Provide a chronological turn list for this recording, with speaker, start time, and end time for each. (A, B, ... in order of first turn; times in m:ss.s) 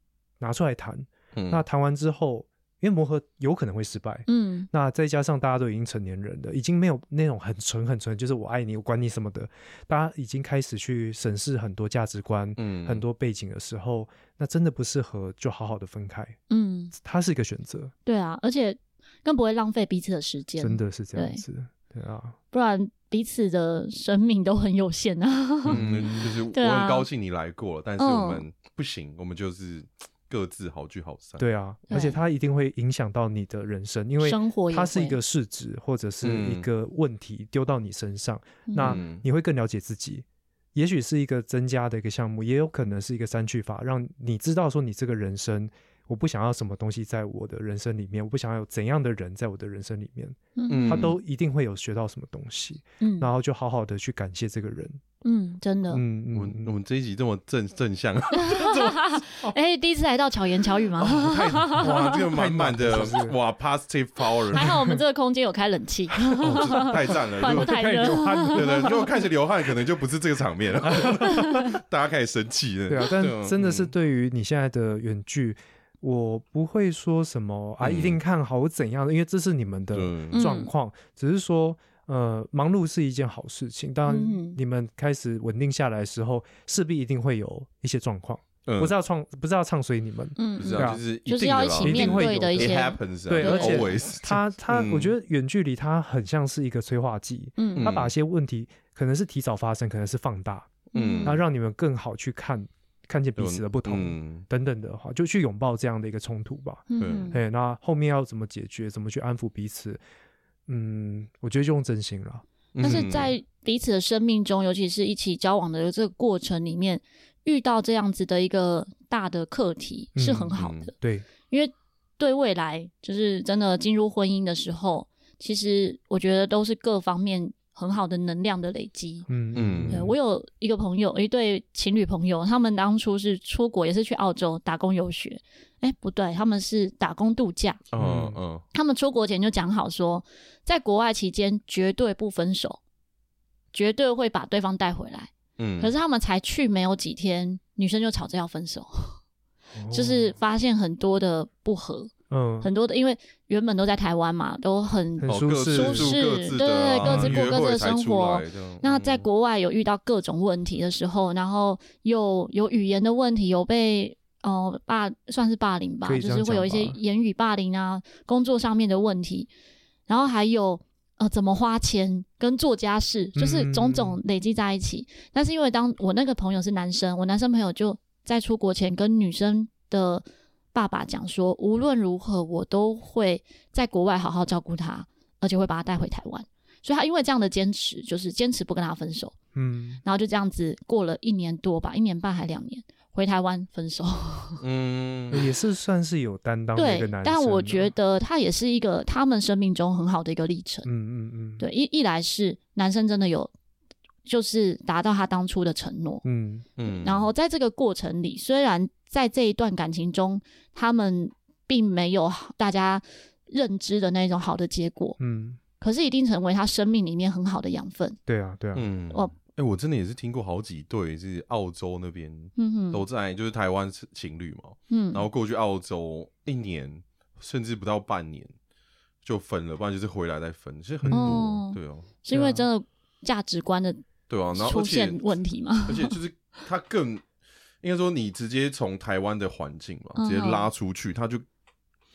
0:00.4-0:16.4 A
0:01.4-0:01.6 B
0:04.3-0:04.7 C
0:12.6-0:13.0 B
0:16.5-0:16.9 C
0:16.9-0:17.9 A
0:18.1-0:21.4 C
0:20.6-0:22.4 A
0:22.5-0:27.1 C
0:25.7-0:31.5 B
0:25.7-0:26.3 A
0:28.0-0:28.4 C
0:31.4-0:55.0 A
0:31.9-0:32.2 C
0:34.2-0:35.2 C
0:36.2-0:36.7 B
0:38.7-0:39.0 C
0:38.8-0:39.2 B
0:50.6-0:51.1 C
0:50.7-0:51.2 B
0:53.0-0:53.3 C
0:55.2-0:56.0 C
0:55.9-0:56.7 A
0:56.3-0:59.5 B
0:58.3-1:02.0 C
1:01.0-1:04.8 B
1:01.8-1:03.4 A
1:04.5-1:09.0 C
1:04.5-1:05.0 A
1:06.4-1:13.9 B
1:06.5-1:06.9 A
1:07.5-1:08.9 A
1:10.9-1:11.3 A
1:11.3-1:11.7 C
1:12.9-1:31.0 A
1:17.8-1:18.2 B
1:19.9-1:20.4 B
1:20.3-1:20.7 C
1:24.1-1:24.6 C
1:28.7-1:29.0 B
1:30.4-1:33.9 C
1:30.6-1:35.1 B
1:31.8-1:40.7 A
1:37.6-1:37.9 C
1:37.8-1:38.1 B
1:40.9-1:41.4 C
1:41.0-1:41.4 B
1:41.2-1:50.0 A
1:43.4-1:44.5 B
1:46.9-1:47.4 C
1:47.0-1:47.3 B
1:50.7-1:53.0 A
1:52.8-1:53.3 B
1:52.8-2:00.9 C
2:00.2-2:01.3 A
2:00.6-2:00.9 B
2:01.5-2:09.3 C
2:09.3-2:10.2 A
2:09.6-2:10.1 B
2:09.9-2:17.8 C
2:17.9-2:18.6 B
2:18.0-2:18.4 A
2:18.7-2:22.8 C
2:23.7-2:29.2 C
2:25.6-2:25.9 B
2:29.8-2:30.4 A
2:29.9-2:49.5 C
2:32.3-2:32.7 A
2:35.2-2:36.1 A
2:35.3-2:39.2 B
2:37.0-2:37.5 A
2:46.0-2:47.0 A
2:50.1-3:09.4 C
2:53.4-2:54.2 A
3:09.6-3:10.0 A
3:10.0-3:14.6 C
3:14.6-3:15.5 B
3:15.3-3:17.9 A
3:16.8-3:20.9 C
3:20.8-3:21.6 A
3:21.6-3:23.5 C
3:24.2-3:26.2 C
3:26.2-3:26.7 A
3:26.8-3:27.3 B
3:26.8-3:35.2 C
3:35.2-3:35.6 A
3:35.8-3:38.2 C
3:38.3-3:38.9 A
3:38.8-3:48.5 B
3:42.6-3:43.0 C
3:44.9-3:45.2 C
3:49.2-3:52.1 B
3:51.0-3:51.4 A
3:51.1-3:54.0 C
3:52.3-3:52.7 A
3:54.3-3:55.2 B
3:54.5-3:56.2 C
3:55.9-3:57.2 B
3:57.8-4:01.4 B
4:00.2-4:00.7 C